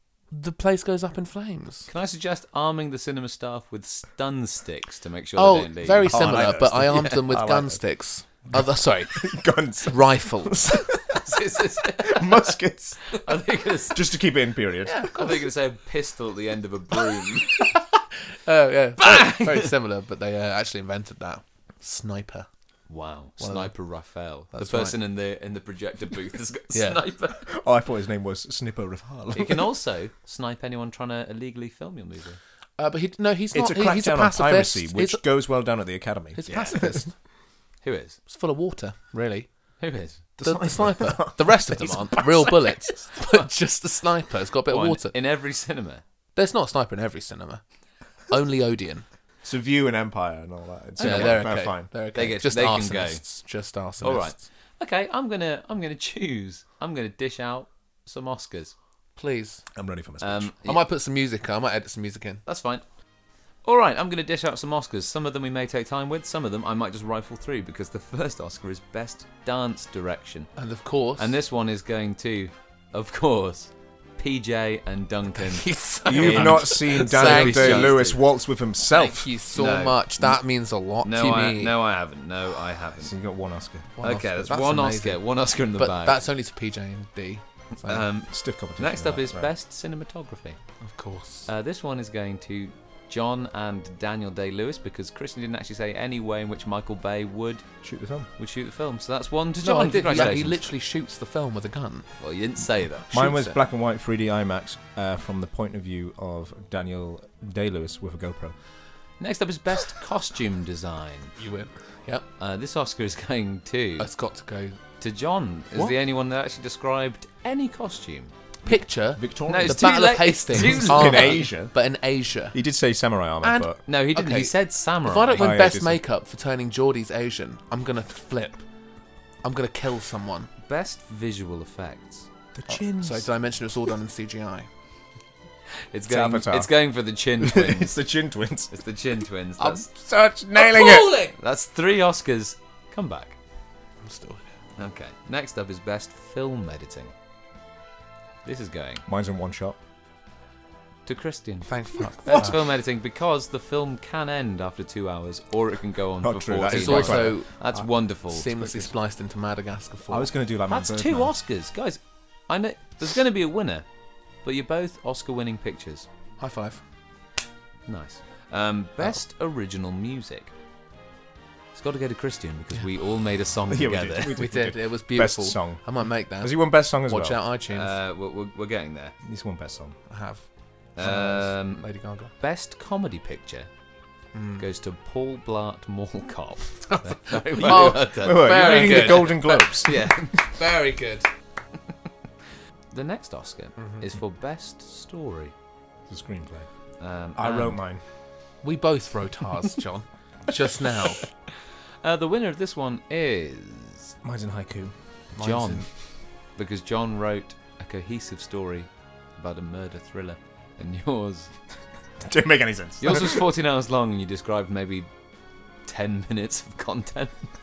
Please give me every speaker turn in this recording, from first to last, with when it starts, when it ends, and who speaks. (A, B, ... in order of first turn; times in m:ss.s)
0:00.3-0:01.9 A
0:01.9-0:07.5 B
0:05.4-0:11.0 A
0:06.1-0:07.8 C
0:09.1-0:11.2 C
0:11.1-0:12.5 B
0:11.8-0:13.2 C
0:13.1-0:14.0 B
0:13.9-0:15.4 C
0:14.8-0:15.5 A
0:15.2-0:17.7 B
0:17.2-0:22.5 A
0:19.0-0:19.7 B
0:22.9-0:27.5 B
0:23.4-0:23.7 A
0:24.5-0:25.0 A
0:26.7-0:27.0 A
0:27.4-0:29.7 C
0:29.4-0:32.4 B
0:32.8-0:35.2 A
0:33.5-0:37.1 C
0:36.4-0:37.1 A
0:36.5-0:36.8 B
0:37.8-0:38.2 B
0:38.3-0:39.5 A
0:39.8-0:40.2 B
0:40.4-0:42.4 C
0:40.4-0:45.2 A
0:44.7-0:46.0 B
0:46.4-0:47.6 A
0:48.3-0:49.1 A
0:49.4-0:51.9 C
0:51.0-0:51.4 B
0:51.0-0:54.4 A
0:52.1-0:53.2 B
0:54.0-0:58.8 B
0:59.2-0:59.6 A
0:59.7-1:00.5 C
1:00.2-1:00.8 B
1:00.6-1:02.4 A
1:02.4-1:02.8 B
1:03.6-1:10.5 B
1:10.6-1:11.4 A
1:11.2-1:18.2 B
1:15.4-1:18.0 A
1:16.1-1:19.3 C
1:18.8-1:21.8 A
1:19.6-1:20.4 B
1:21.0-1:23.1 B
1:23.0-1:23.9 C
1:24.0-1:25.2 A
1:24.0-1:26.2 B
1:25.8-1:28.1 A
1:27.8-1:30.6 B
1:28.3-1:29.5 C
1:30.8-1:31.5 A
1:31.5-1:37.6 B
1:37.8-1:38.3 C
1:38.4-1:40.7 B
1:39.6-1:42.1 A
1:42.2-1:43.6 B
1:43.1-1:48.6 C
1:49.2-1:51.3 B
1:51.4-1:52.2 A
1:52.4-1:54.1 B
1:54.0-1:54.8 A
1:55.0-1:58.3 B
1:58.7-2:02.6 A
1:59.2-2:01.7 C
1:59.5-2:01.5 B
2:02.5-2:03.8 C
2:03.4-2:08.6 A
2:03.9-2:05.5 B
2:05.4-2:06.0 C
2:09.4-2:10.5 A
2:10.6-2:12.3 B
2:12.5-2:13.3 C
2:12.7-2:14.7 A
2:15.9-2:18.0 B
2:16.1-2:16.7 C
2:17.4-2:18.7 C
2:18.7-2:19.9 B
2:19.6-2:21.2 C
2:19.7-2:21.4 A
2:21.3-2:23.4 B
2:24.0-2:24.5 A
2:24.8-2:27.1 B
2:28.4-2:29.0 B
2:29.1-2:29.8 C
2:31.1-2:38.5 B
2:31.7-2:32.6 A
2:32.2-2:32.6 C
2:36.2-2:37.9 C
2:36.7-2:37.5 A
2:38.3-2:40.3 A
2:38.5-2:38.9 C
2:40.1-2:41.3 C
2:40.7-2:43.9 B
2:44.4-2:46.1 B
2:46.4-2:46.8 A
2:47.9-2:50.5 B
2:51.7-2:54.4 B
2:53.7-2:55.8 C
2:54.3-2:58.0 A
2:56.4-2:57.4 C
2:57.7-2:59.2 B
2:59.2-3:00.0 C
3:00.1-3:02.3 A
3:01.0-3:01.8 B
3:02.4-3:03.7 B
3:04.3-3:04.6 A
3:04.6-3:10.5 B
3:06.9-3:09.8 A
3:07.6-3:10.1 C
3:10.6-3:11.3 A
3:12.9-3:15.5 B
3:13.8-3:14.0 A
3:16.1-3:16.7 C
3:17.0-3:17.8 B
3:17.4-3:18.0 C
3:18.6-3:21.3 A
3:22.0-3:24.2 B
3:24.2-3:24.9 C
3:25.4-3:25.9 A
3:25.4-3:25.9 B
3:26.6-3:31.5 B
3:32.2-3:33.5 C
3:33.0-3:35.1 B
3:35.9-3:37.5 B